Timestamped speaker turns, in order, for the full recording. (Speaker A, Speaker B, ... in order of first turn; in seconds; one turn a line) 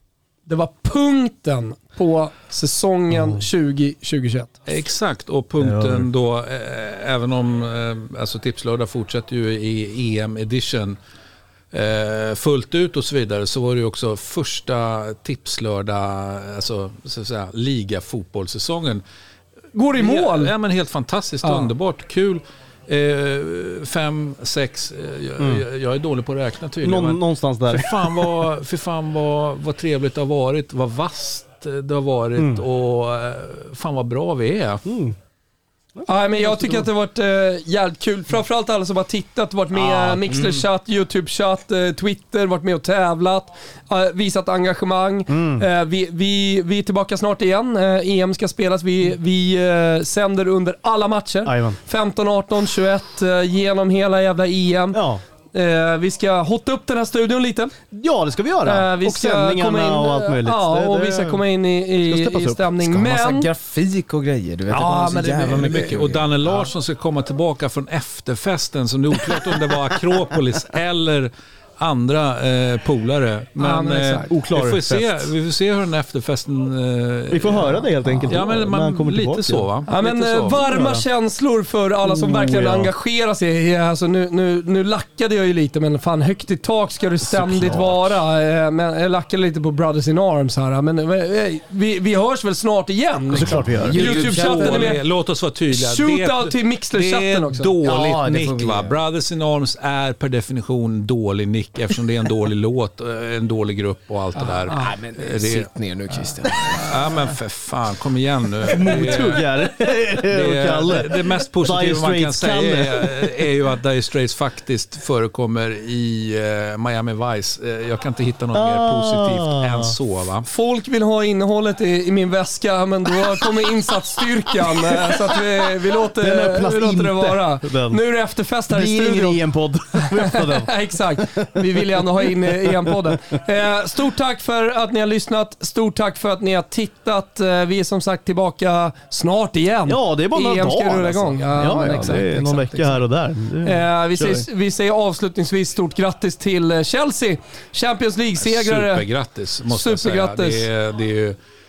Speaker A: 0.5-4.5
Speaker B: 3.1-3.4
Speaker C: 4.7-11.0
Speaker B: 5.6-6.1
Speaker C: 11.7-19.0
Speaker A: 19.7-20.5
Speaker C: 20.0-34.8
Speaker A: 21.4-21.7
Speaker B: 25.4-25.6
Speaker B: 26.8-28.4
Speaker B: 32.4-32.6
Speaker B: 34.9-35.2
Speaker B: 36.0-36.9
Speaker A: 36.1-55.0
Speaker B: 39.8-40.5
Speaker B: 45.3-45.7
Speaker B: 51.5-51.8
Speaker B: 54.9-55.2
Speaker A: 55.5-57.7
Speaker B: 57.9-61.4
Speaker A: 58.6-63.5
Speaker B: 62.0-62.8
Speaker D: 62.8-66.7
Speaker A: 64.7-65.9
Speaker C: 65.5-80.7
Speaker A: 73.6-74.3
Speaker B: 74.3-75.3
Speaker B: 77.3-79.7
Speaker A: 79.9-95.0
Speaker B: 80.7-81.0
Speaker B: 82.3-82.9
Speaker B: 87.2-88.2
Speaker B: 93.3-94.2
Speaker D: 93.8-95.0
Speaker C: 94.0-105.7
Speaker A: 95.7-97.7
Speaker D: 97.8-99.0
Speaker A: 104.4-104.9
Speaker D: 104.8-106.9
Speaker C: 106.7-109.5
Speaker B: 108.7-113.4
Speaker C: 110.3-120.5
Speaker B: 118.5-119.9
Speaker A: 120.5-129.4
Speaker B: 126.2-128.0
Speaker B: 128.7-133.2
Speaker A: 130.2-143.0
Speaker B: 139.9-144.5
Speaker A: 143.6-149.1
Speaker C: 148.4-151.4
Speaker A: 149.7-150.7